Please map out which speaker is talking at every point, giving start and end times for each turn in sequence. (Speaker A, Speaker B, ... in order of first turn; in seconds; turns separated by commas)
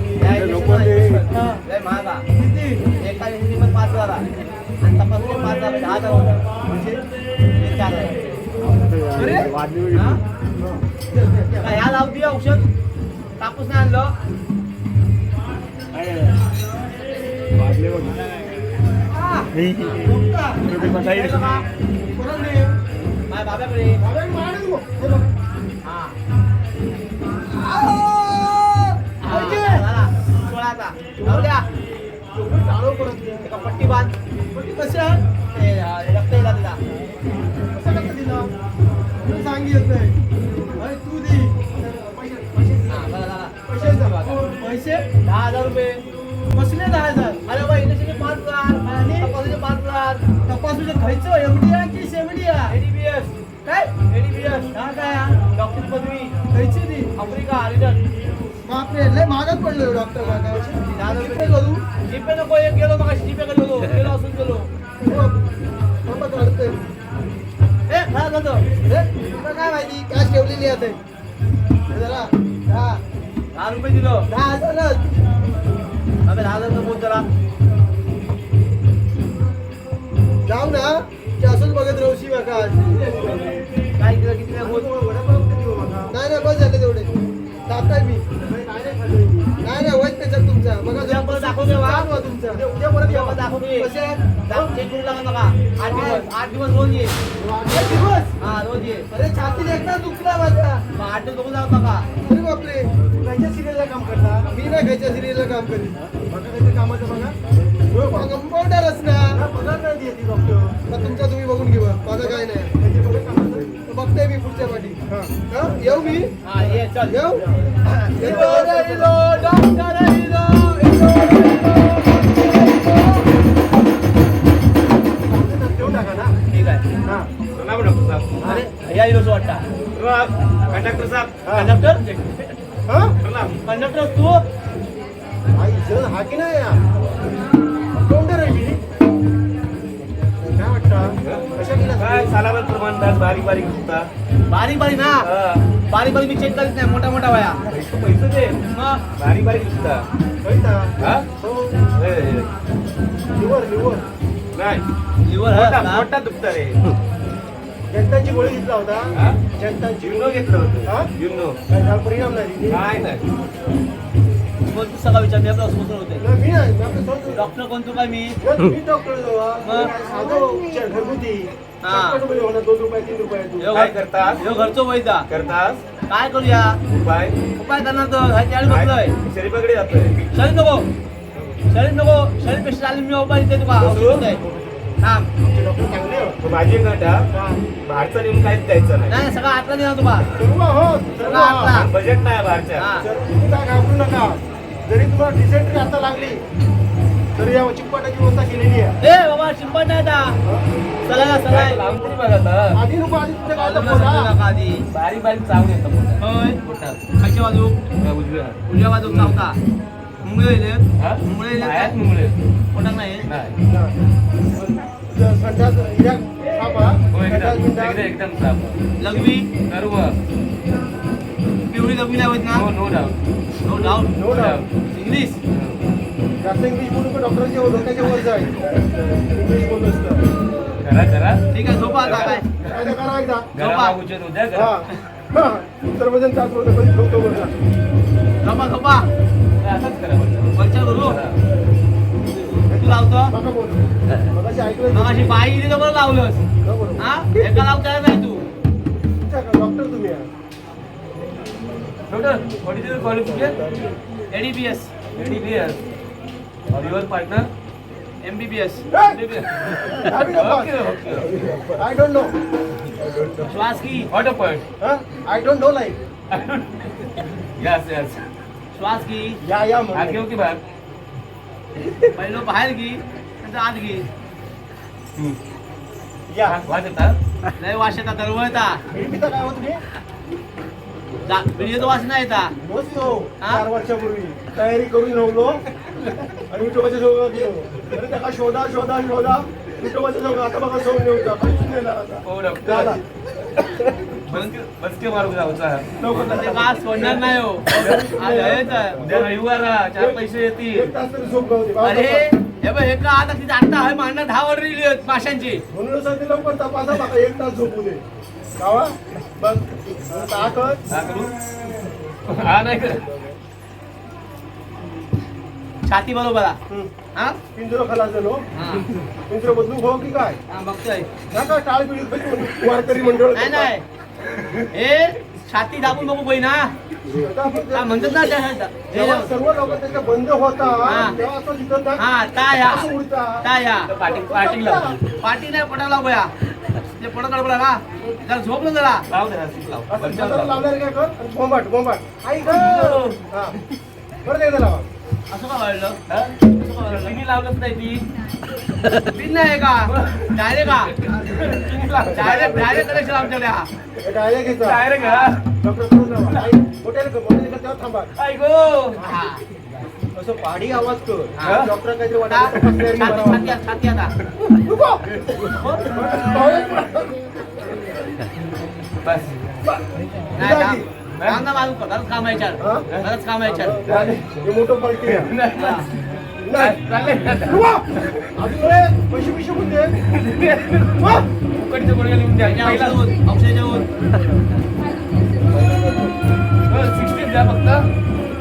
Speaker A: 0.2-2.2, Speaker B: 0.6-1.1, Speaker C: 1.3-1.6, Speaker C: 2.4-2.9, Speaker A: 3.0-4.2, Speaker A: 4.8-6.4, Speaker D: 6.7-7.0, Speaker A: 7.6-8.2, Speaker C: 9.1-9.5, Speaker A: 9.9-10.2, Speaker D: 10.6-11.8, Speaker A: 11.6-12.7, Speaker A: 13.4-14.1, Speaker C: 19.1-21.0, Speaker A: 19.7-20.1, Speaker A: 20.6-21.7, Speaker C: 22.2-22.7, Speaker A: 23.3-24.0, Speaker D: 24.0-25.3, Speaker A: 25.9-26.2, Speaker C: 27.6-29.8, Speaker A: 29.2-31.7, Speaker D: 31.2-31.5, Speaker D: 32.3-33.5, Speaker A: 33.4-34.1, Speaker D: 34.5-34.8, Speaker C: 34.7-35.2, Speaker A: 35.5-36.8, Speaker D: 37.7-38.5, Speaker D: 39.2-40.1, Speaker C: 40.8-41.6, Speaker D: 41.7-43.1, Speaker A: 42.9-44.4, Speaker D: 43.7-44.4, Speaker C: 44.4-45.1, Speaker A: 45.2-46.0, Speaker C: 46.5-47.4, Speaker A: 47.5-50.2, Speaker C: 48.8-49.3, Speaker C: 50.5-52.7, Speaker A: 52.7-53.4, Speaker C: 53.6-54.0, Speaker A: 53.9-54.8, Speaker C: 54.7-55.4, Speaker A: 55.4-56.3, Speaker C: 56.5-57.1, Speaker A: 57.2-58.0, Speaker C: 58.6-61.8, Speaker A: 60.2-64.7, Speaker C: 65.0-65.4, Speaker C: 66.1-66.8, Speaker A: 67.9-68.6, Speaker C: 68.8-71.0, Speaker C: 71.9-73.0, Speaker A: 73.5-74.3, Speaker C: 74.3-75.1, Speaker A: 76.2-77.3, Speaker C: 80.5-82.9, Speaker D: 82.7-83.7, Speaker A: 84.0-84.9, Speaker D: 84.6-86.1, Speaker C: 86.1-87.1, Speaker C: 87.7-88.3, Speaker D: 88.4-89.5, Speaker C: 89.6-92.6, Speaker A: 91.0-92.1, Speaker D: 92.5-93.4, Speaker A: 93.0-93.9, Speaker C: 93.8-94.4, Speaker A: 94.5-97.2, Speaker D: 95.9-96.2, Speaker C: 95.9-96.2, Speaker D: 97.4-98.2, Speaker C: 97.7-98.3, Speaker A: 98.4-99.1, Speaker C: 99.1-100.8, Speaker A: 100.9-102.1, Speaker C: 102.2-102.9, Speaker D: 103.0-104.5, Speaker C: 104.5-106.0, Speaker D: 106.2-107.4, Speaker D: 107.9-108.4, Speaker C: 108.1-109.4, Speaker D: 109.3-110.8, Speaker C: 110.9-112.7, Speaker D: 112.2-113.7, Speaker C: 113.9-116.3, Speaker D: 115.1-119.3, Speaker A: 116.4-117.2, Speaker C: 117.0-117.4, Speaker C: 118.2-118.9, Speaker A: 118.2-121.4, Speaker D: 125.3-126.4, Speaker A: 126.5-126.8, Speaker D: 127.0-127.3, Speaker B: 127.5-128.3, Speaker D: 128.4-128.7, Speaker A: 128.4-129.6, Speaker B: 129.9-131.4, Speaker D: 131.4-131.8, Speaker A: 131.5-132.6, Speaker D: 132.9-133.2, Speaker B: 133.2-133.6, Speaker A: 133.7-134.4, Speaker D: 135.6-136.8, Speaker D: 138.1-138.8, Speaker D: 140.5-142.3, Speaker B: 141.2-144.1, Speaker A: 144.5-145.3, Speaker B: 145.2-145.6, Speaker A: 145.9-147.6, Speaker B: 147.7-148.6, Speaker A: 148.7-149.0, Speaker B: 149.2-150.1, Speaker D: 150.4-151.8, Speaker B: 151.0-151.3, Speaker B: 152.0-152.5, Speaker D: 153.3-154.0, Speaker B: 154.6-154.8, Speaker A: 155.2-156.1, Speaker B: 155.5-156.9, Speaker D: 157.9-161.1, Speaker B: 159.1-159.4, Speaker B: 160.0-161.6, Speaker D: 161.7-162.9, Speaker B: 162.7-163.2, Speaker A: 164.7-166.3, Speaker D: 166.2-167.4, Speaker A: 167.3-168.4, Speaker D: 168.4-173.9, Speaker A: 169.7-169.9, Speaker C: 170.0-170.9, Speaker A: 171.8-172.2, Speaker A: 173.6-175.3, Speaker B: 173.7-174.4, Speaker B: 175.3-175.8, Speaker A: 176.1-176.8, Speaker B: 176.9-177.4, Speaker A: 177.6-179.2, Speaker B: 178.7-180.2, Speaker A: 180.3-180.9, Speaker A: 181.7-184.4, Speaker D: 183.8-186.4, Speaker A: 185.0-185.3, Speaker B: 186.4-187.3, Speaker D: 187.3-187.6, Speaker B: 187.8-189.2, Speaker A: 189.1-190.3, Speaker D: 190.4-191.9, Speaker A: 191.2-191.9, Speaker B: 191.7-192.9, Speaker A: 192.8-193.1, Speaker D: 193.0-196.4, Speaker D: 197.3-199.0, Speaker A: 199.0-200.4, Speaker A: 201.1-201.8, Speaker B: 201.4-202.8, Speaker D: 202.7-204.3, Speaker A: 203.5-204.8, Speaker B: 204.9-207.0, Speaker A: 206.2-206.6, Speaker A: 207.2-207.8, Speaker B: 208.0-209.4, Speaker A: 208.7-209.6, Speaker A: 210.2-211.9, Speaker B: 211.0-212.4, Speaker A: 212.7-213.3, Speaker B: 213.2-213.6, Speaker D: 213.7-213.9, Speaker D: 215.1-218.1, Speaker B: 217.1-218.9, Speaker A: 219.0-219.5, Speaker B: 219.6-220.2, Speaker A: 221.7-222.7, Speaker B: 222.5-223.2, Speaker A: 223.6-224.3, Speaker B: 223.8-224.7, Speaker D: 224.1-224.6, Speaker A: 224.9-225.4, Speaker B: 225.5-225.8, Speaker D: 226.4-230.2, Speaker B: 230.8-231.4, Speaker A: 231.5-232.5, Speaker B: 232.0-232.9, Speaker D: 232.1-233.5, Speaker B: 233.6-234.9, Speaker A: 233.6-234.0, Speaker D: 234.5-237.6, Speaker A: 238.4-239.1, Speaker B: 239.6-241.4, Speaker A: 240.6-241.2, Speaker D: 242.7-245.4, Speaker A: 242.7-243.3, Speaker A: 244.9-246.4, Speaker D: 246.6-247.6, Speaker A: 247.0-248.4, Speaker D: 249.2-250.3, Speaker B: 252.1-253.6, Speaker D: 253.3-253.8, Speaker A: 254.3-254.9, Speaker B: 255.1-255.8, Speaker B: 256.7-257.5, Speaker A: 258.2-258.9, Speaker D: 258.9-260.8, Speaker B: 259.1-261.6, Speaker D: 261.8-262.3, Speaker A: 263.4-264.1, Speaker B: 264.1-264.6, Speaker D: 264.8-266.0, Speaker B: 266.3-268.2, Speaker A: 268.7-269.4, Speaker D: 269.4-270.2, Speaker B: 269.9-270.6, Speaker A: 272.1-274.1, Speaker D: 276.3-276.6, Speaker B: 276.4-277.2, Speaker A: 277.6-278.8, Speaker D: 278.9-279.8, Speaker A: 281.2-282.5, Speaker D: 282.6-285.6, Speaker A: 283.4-283.6, Speaker D: 286.5-293.0, Speaker B: 292.2-293.0, Speaker B: 293.6-295.9, Speaker D: 296.0-299.3, Speaker A: 296.2-299.1, Speaker B: 299.0-300.9, Speaker D: 300.0-302.3, Speaker A: 301.8-305.6, Speaker D: 305.7-308.0, Speaker D: 308.6-310.8, Speaker B: 310.9-311.3, Speaker B: 312.3-313.0, Speaker A: 315.9-316.6, Speaker D: 317.5-318.4, Speaker A: 318.6-318.9, Speaker D: 319.3-320.4, Speaker A: 320.5-321.1, Speaker D: 321.3-323.7, Speaker A: 323.4-323.9, Speaker A: 324.7-326.7, Speaker D: 327.1-328.3, Speaker A: 327.7-329.3, Speaker D: 328.9-332.0, Speaker A: 330.8-331.2, Speaker A: 332.0-333.9, Speaker D: 332.6-333.5, Speaker B: 333.9-335.0, Speaker D: 334.0-335.0, Speaker A: 335.1-336.3, Speaker A: 336.9-339.1, Speaker B: 339.1-340.7, Speaker D: 339.9-343.6, Speaker B: 342.4-343.2, Speaker D: 344.2-344.9, Speaker A: 345.3-346.0, Speaker B: 346.1-346.4, Speaker A: 346.5-347.2, Speaker B: 346.9-348.1, Speaker A: 349.1-350.9, Speaker B: 349.9-353.4, Speaker A: 352.0-353.7, Speaker D: 352.1-352.8, Speaker D: 354.0-354.8, Speaker B: 354.6-355.4, Speaker A: 355.0-355.3, Speaker D: 355.6-358.1, Speaker B: 358.2-359.0, Speaker A: 358.9-359.4, Speaker D: 360.1-363.6, Speaker A: 361.4-361.7, Speaker B: 361.4-361.7, Speaker A: 362.3-364.1, Speaker B: 362.9-363.4, Speaker D: 364.6-365.0, Speaker A: 365.5-366.1, Speaker D: 365.8-367.8, Speaker B: 369.0-369.3, Speaker A: 370.4-373.9, Speaker D: 370.4-370.9, Speaker B: 371.2-371.4, Speaker D: 372.6-372.9, Speaker D: 373.4-375.3, Speaker B: 373.8-374.2, Speaker B: 375.1-375.9, Speaker A: 375.6-375.9, Speaker D: 376.4-376.8, Speaker B: 376.5-377.7, Speaker D: 377.3-379.9, Speaker B: 380.1-383.1, Speaker D: 381.0-381.3, Speaker A: 382.4-383.9, Speaker D: 385.5-386.1, Speaker B: 386.7-387.9